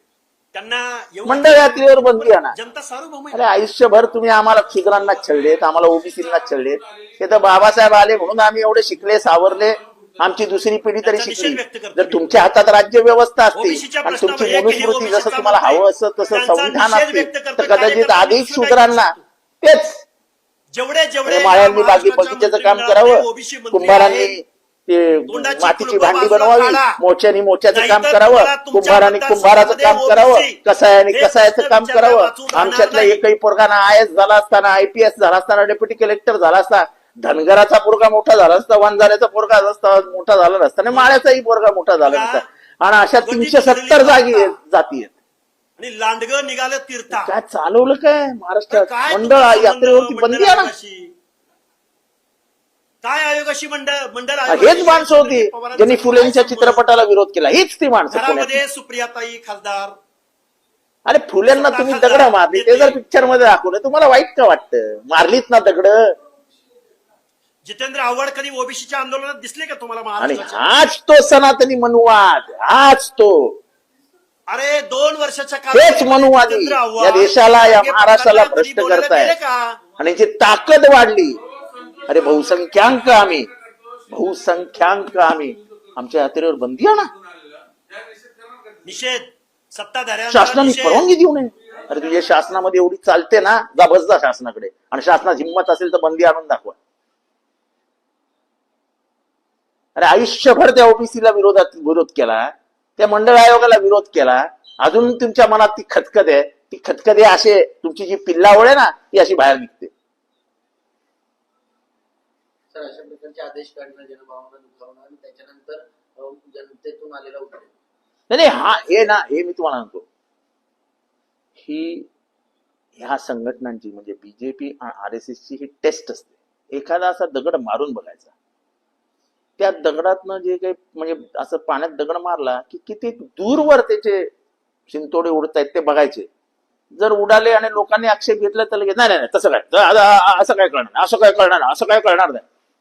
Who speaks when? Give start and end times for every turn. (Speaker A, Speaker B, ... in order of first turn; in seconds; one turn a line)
Speaker A: 0.5-3.4
Speaker B: 1.2-2.5
Speaker B: 3.3-20.0
Speaker A: 11.0-12.4
Speaker A: 13.5-19.2
Speaker A: 20.7-24.4
Speaker B: 21.2-45.1
Speaker A: 25.3-27.0
Speaker A: 27.7-30.6
Speaker A: 31.1-33.2
Speaker A: 40.9-41.2
Speaker A: 42.0-42.4
Speaker A: 43.2-44.6
Speaker A: 45.8-47.3
Speaker B: 47.1-50.7
Speaker A: 48.7-51.1
Speaker A: 53.0-56.9
Speaker B: 54.5-58.6
Speaker A: 58.1-60.0
Speaker B: 61.0-66.1
Speaker A: 61.5-63.0
Speaker A: 67.6-70.9
Speaker B: 70.2-73.6
Speaker A: 74.5-79.8
Speaker B: 75.7-79.4
Speaker B: 80.0-81.4
Speaker B: 82.0-83.5
Speaker B: 84.1-87.1
Speaker A: 88.8-91.1
Speaker B: 90.3-96.8
Speaker B: 100.0-109.9
Speaker C: 112.7-117.7
Speaker B: 118.3-120.0
Speaker B: 121.6-122.1
Speaker B: 123.0-128.3
Speaker B: 129.6-134.3
Speaker B: 134.9-136.3
Speaker B: 137.0-142.4